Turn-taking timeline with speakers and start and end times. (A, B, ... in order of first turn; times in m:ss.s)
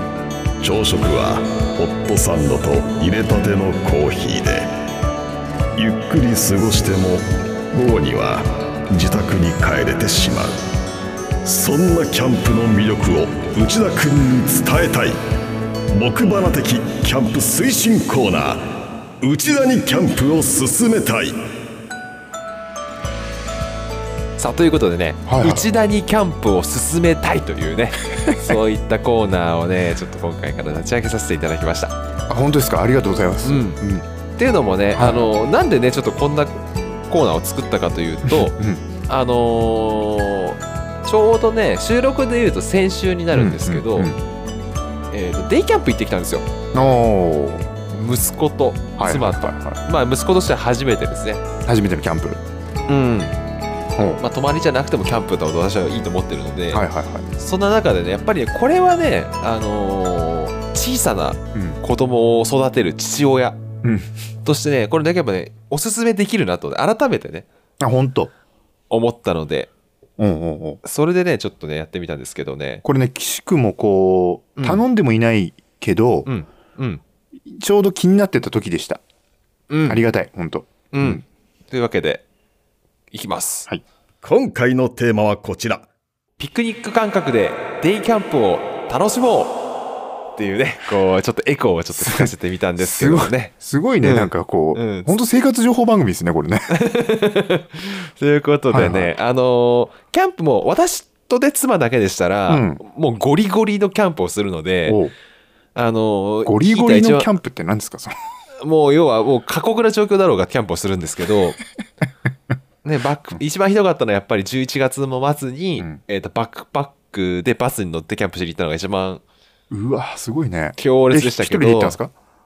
0:00.6-0:04.7 A
0:05.7-0:10.6 A
0:11.4-0:15.2 A
0:15.9-0:18.7 A
0:19.2-0:21.4 A
0:24.4-0:31.9 B
0:25.2-0:25.7 C
0:28.2-0:28.5 C
0:32.3-0:34.0 C
0:33.4-0:33.8 B
0:34.4-0:38.6 B
0:34.9-0:35.3 C
0:38.2-0:38.8 C
0:39.1-0:44.1 B
0:43.3-0:44.2 C
0:45.1-0:46.4 B
0:46.7-0:47.7 C
0:47.9-0:51.4 B
0:49.0-0:49.8 C
0:51.6-0:52.4 C
0:52.9-0:53.3 B
0:53.9-0:54.2 C
0:54.2-0:56.8 B
0:56.7-0:57.3 C
0:57.4-1:03.6 B
1:01.5-1:01.8 C
1:03.8-1:04.1 C
1:04.4-1:07.4 B
1:07.8-1:08.3 C
1:08.9-1:09.7 B
1:10.2-1:10.8 C
1:10.8-1:12.8 B
1:12.8-1:16.3 C
1:14.6-1:14.8 B
1:16.2-1:17.0 B
1:17.4-1:19.0 C
1:19.7-1:20.0 B
1:19.8-1:21.2 C
1:20.9-1:22.2 B
1:23.1-1:23.7 B
1:24.2-1:25.8 A
1:26.4-1:29.6 B
1:30.4-1:35.2 B
1:31.9-1:36.7 C
1:36.7-1:45.0 B
1:38.7-1:39.1 C
1:42.5-1:42.8 C
1:44.9-1:45.1 C
1:45.7-1:47.3 B
1:46.4-1:48.1 C
1:48.6-1:51.6 B
1:52.8-1:59.2 B
1:59.7-2:02.1 C
2:00.8-2:02.0 B